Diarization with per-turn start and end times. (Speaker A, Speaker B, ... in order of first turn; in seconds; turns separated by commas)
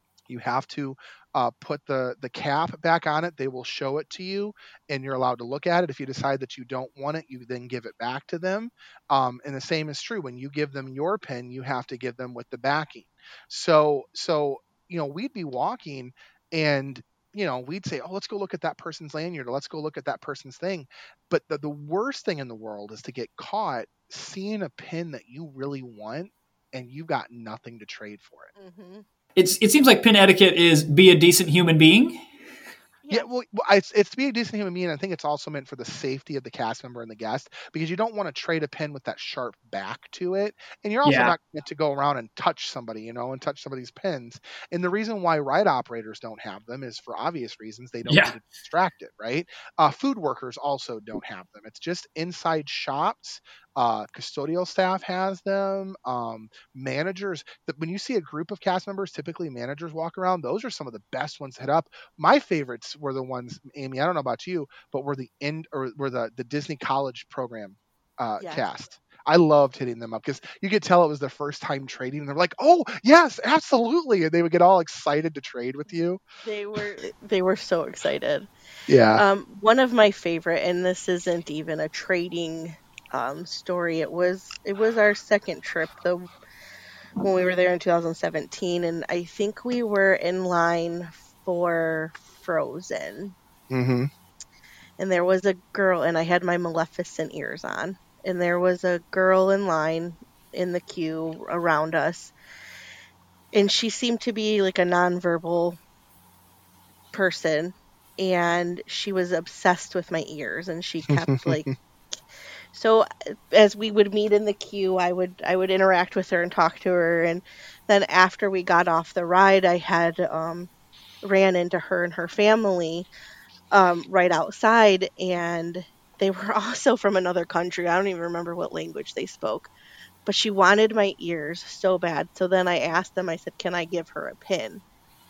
Speaker A: 0.3-28.5, Speaker B: 28.6-29.1, Speaker C: 29.4-32.3, Speaker B: 33.0-33.3, Speaker A: 33.1-76.2, Speaker C: 41.0-41.3, Speaker C: 48.1-48.4, Speaker B: 68.4-68.7, Speaker B: 76.4-78.5, Speaker A: 78.9-79.2, Speaker B: 79.1-86.2, Speaker B: 87.2-93.3, Speaker A: 93.7-94.1, Speaker B: 95.0-102.3, Speaker B: 103.5-105.8, Speaker B: 107.1-111.7, Speaker A: 111.1-111.7, Speaker B: 112.7-120.7, Speaker B: 121.2-123.1, Speaker B: 123.7-129.7, Speaker B: 130.2-134.8